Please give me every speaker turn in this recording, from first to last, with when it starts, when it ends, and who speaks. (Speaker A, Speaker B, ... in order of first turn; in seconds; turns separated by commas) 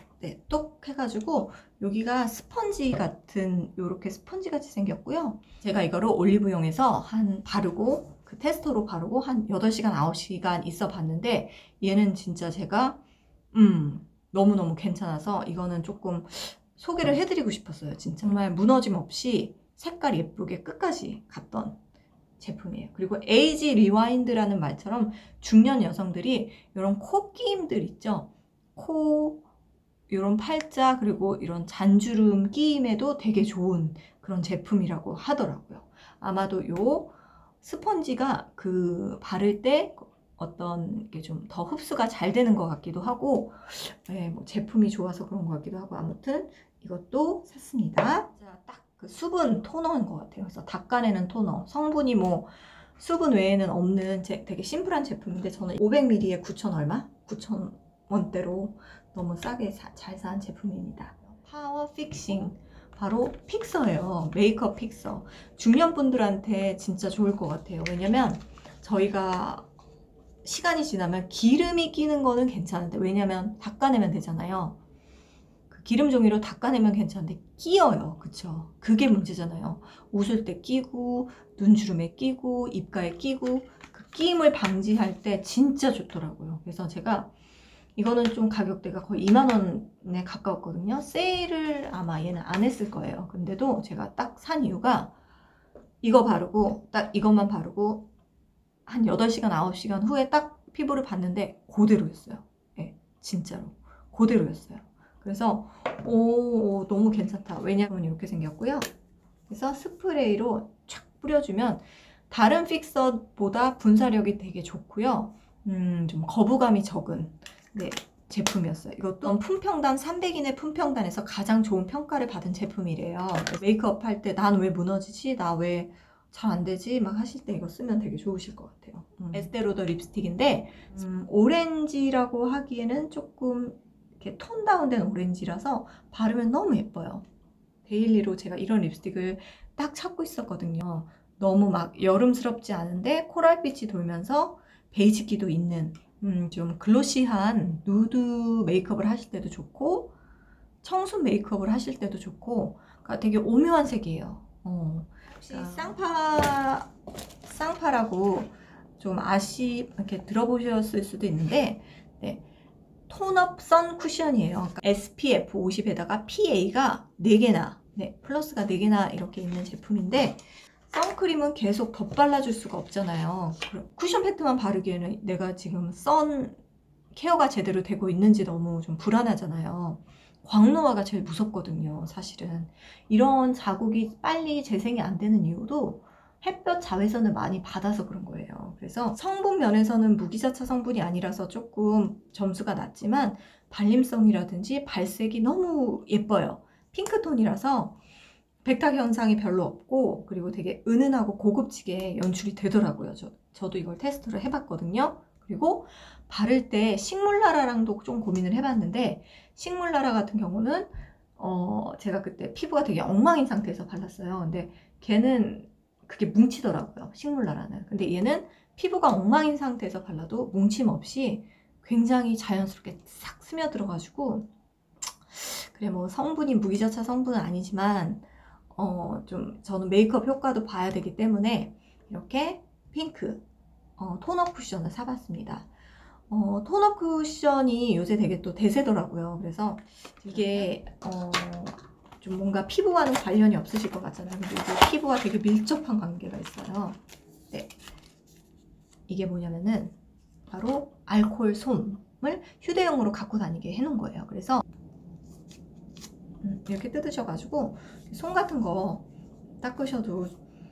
Speaker A: 0.2-13.0, Speaker A: 13.5-21.8, Speaker A: 22.4-29.4, Speaker A: 30.1-69.7, Speaker A: 70.4-74.8, Speaker A: 75.7-87.3, Speaker A: 88.0-95.1, Speaker A: 96.0-98.1, Speaker A: 98.9-108.9, Speaker A: 109.5-137.2, Speaker A: 137.8-150.2, Speaker A: 150.8-156.9, Speaker A: 157.4-162.5, Speaker A: 163.1-176.6, Speaker A: 177.1-198.0, Speaker A: 198.6-224.5, Speaker A: 225.3-233.4, Speaker A: 234.0-235.7, Speaker A: 236.3-247.0, Speaker A: 249.1-250.0, Speaker A: 250.5-254.6, Speaker A: 256.4-259.1, Speaker A: 259.6-260.4